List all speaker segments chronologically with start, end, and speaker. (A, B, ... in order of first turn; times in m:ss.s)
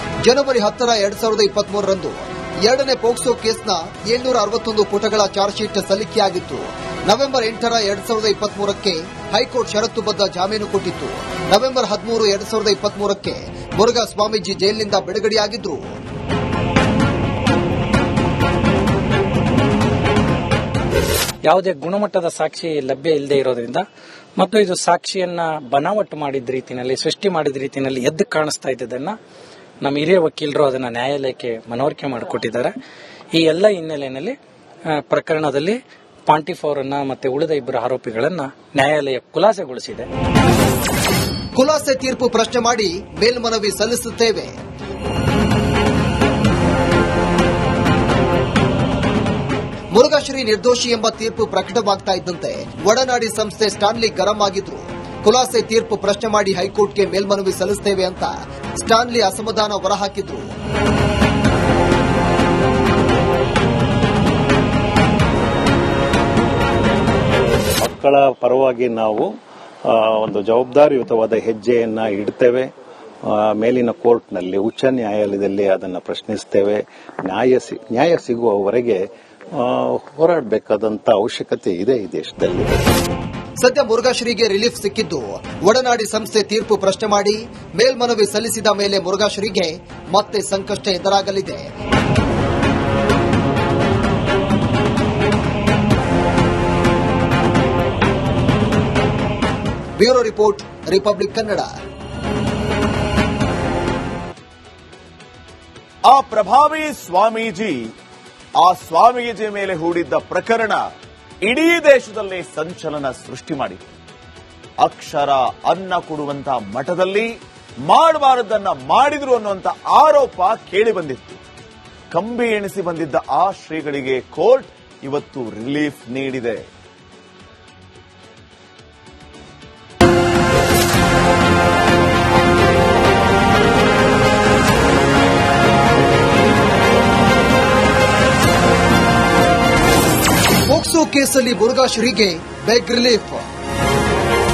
0:00.3-0:15.9 A
0:21.4-0:23.8 B
0:24.4-0:29.2 B
0:29.8-0:32.7 B
0:33.4-0:34.4 B
0:35.0-0:35.8 B
0:36.3-0:40.1 B
0:41.6-0:44.6 A
0:49.9-1:00.4 A
1:07.8-1:09.3 C
1:09.9-1:12.7 C
1:13.3-1:19.0 C
1:19.6-1:22.8 C
1:23.6-1:31.7 A
1:40.0-1:41.7 A
1:46.1-1:47.9 D
1:48.6-1:50.8 D
1:51.4-1:53.8 D
1:54.8-1:57.3 D
1:57.9-2:01.4 D
2:02.1-2:06.6 D
2:20.7-2:23.4 A